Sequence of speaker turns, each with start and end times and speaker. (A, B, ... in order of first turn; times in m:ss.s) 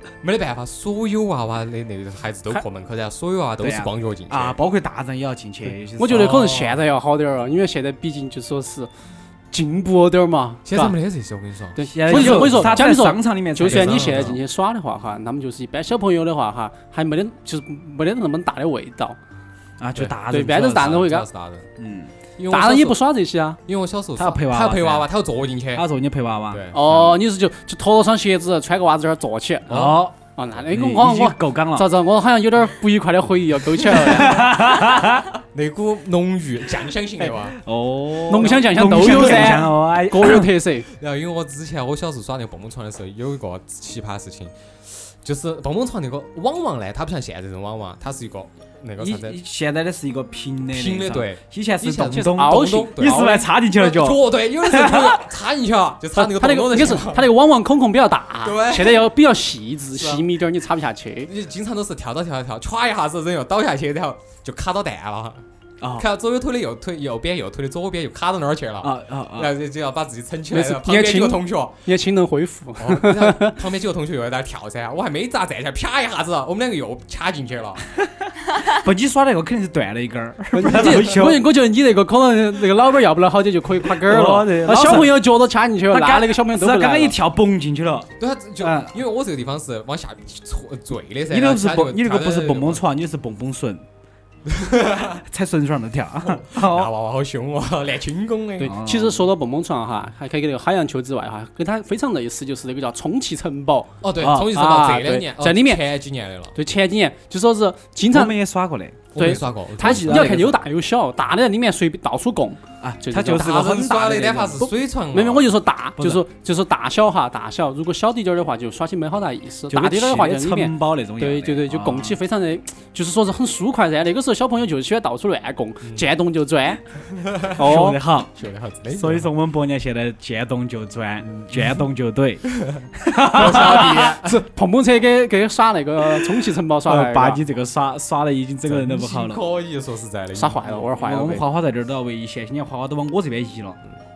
0:00.2-0:04.6 A
0:03.6-0:06.6 B
0:06.0-0:08.9 C
0:06.1-0:06.7 A
0:09.5-0:11.0 C
0:10.6-0:12.9 A
0:11.8-0:19.2 C
0:11.9-0:14.4 B
0:13.6-0:14.4 A
0:19.8-0:21.0 B
0:19.9-0:21.7 A
0:20.3-0:21.2 C
0:21.8-0:22.1 B
0:22.4-0:23.0 A
0:22.5-0:23.6 C
0:23.6-0:25.9 A
0:24.2-0:25.1 B
0:25.7-0:26.6 B
0:26.5-0:27.1 A
0:26.7-0:34.4 C
0:29.7-0:30.1 A
0:29.7-0:30.1 B
0:30.7-0:31.9 B
0:33.8-0:35.2 B
0:35.5-0:37.6 A
0:37.2-0:40.5 B
0:38.3-0:40.9 C
0:38.9-0:39.6 A
0:40.9-0:49.4 A
0:49.0-0:55.2 B
0:50.7-0:57.3 A
0:52.1-0:53.5 C
0:56.1-1:01.3 C
0:58.4-0:59.1 A
0:59.9-1:00.2 A
1:01.2-1:05.4 A
1:05.8-1:06.1 B
1:06.0-1:11.8 A
1:08.8-1:09.5 B
1:10.5-1:13.5 C
1:12.8-1:17.8 A
1:18.6-1:21.4 B
1:20.5-1:27.2 C
1:24.0-1:25.2 B
1:25.9-1:28.9 B
1:28.2-1:32.8 A
1:31.3-1:33.8 B
1:34.5-1:35.2 A
1:35.3-1:36.9 B
1:36.2-1:38.7 A
1:38.6-1:45.8 C
1:38.6-1:39.3 B
1:44.0-1:46.5 A
1:44.2-1:44.5 B
1:46.5-1:48.3 C
1:48.1-1:49.1 B
1:49.1-1:50.6 A
1:49.2-1:53.5 C
1:49.8-1:50.6 B
1:52.8-1:54.7 B
1:53.3-1:55.5 A
1:54.6-2:06.8 C
1:56.0-1:56.2 B
1:59.7-2:02.2 B
2:07.1-2:07.8 A
2:07.6-2:08.0 C
2:07.6-2:08.3 B
2:08.3-2:09.3 A
2:08.9-2:14.2 B
2:11.3-2:11.8 A
2:12.6-2:14.4 A
2:13.4-2:17.4 C
2:16.8-2:19.4 B
2:18.6-2:21.0 A
2:20.4-2:21.4 C
2:21.0-2:23.8 B